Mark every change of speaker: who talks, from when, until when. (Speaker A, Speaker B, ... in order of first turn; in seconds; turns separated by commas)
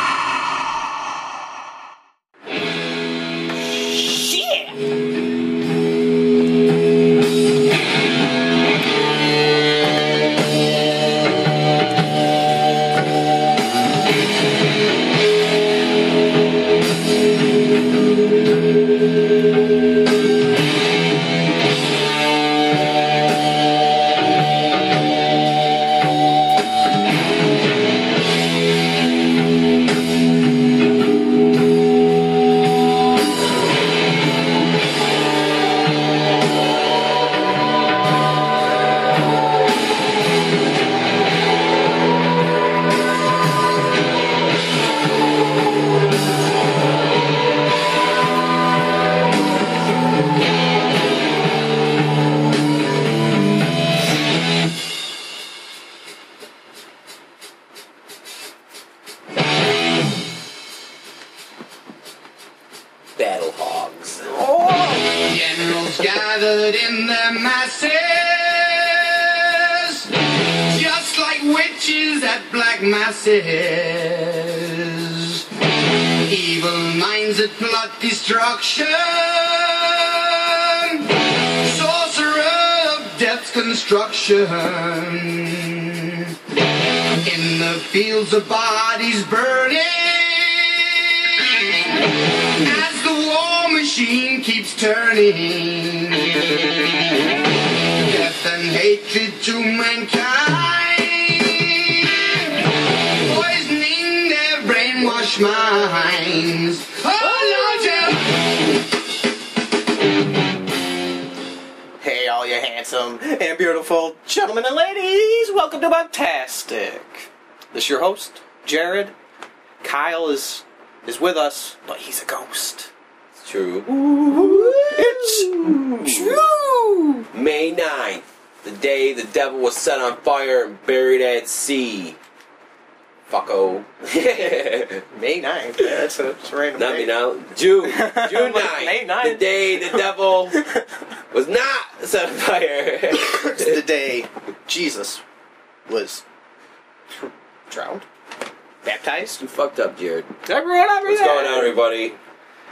Speaker A: 4.0-4.7, Speaker B: 63.2-64.4, Speaker A: 64.3-65.1, Speaker C: 65.1-86.6, Speaker C: 87.2-96.9, Speaker C: 97.9-108.4, Speaker A: 107.2-108.1, Speaker A: 112.0-119.1, Speaker A: 119.8-122.9, Speaker B: 123.4-126.5, Speaker A: 124.3-127.3, Speaker B: 127.3-132.2, Speaker B: 133.3-135.1, Speaker A: 135.1-137.1, Speaker B: 136.8-140.6, Speaker A: 137.8-140.8, Speaker B: 141.3-143.8, Speaker A: 143.1-145.2, Speaker A: 145.9-146.2, Speaker A: 147.1-148.1, Speaker A: 148.8-149.4, Speaker B: 149.4-150.3, Speaker A: 150.5-151.8, Speaker B: 151.1-152.2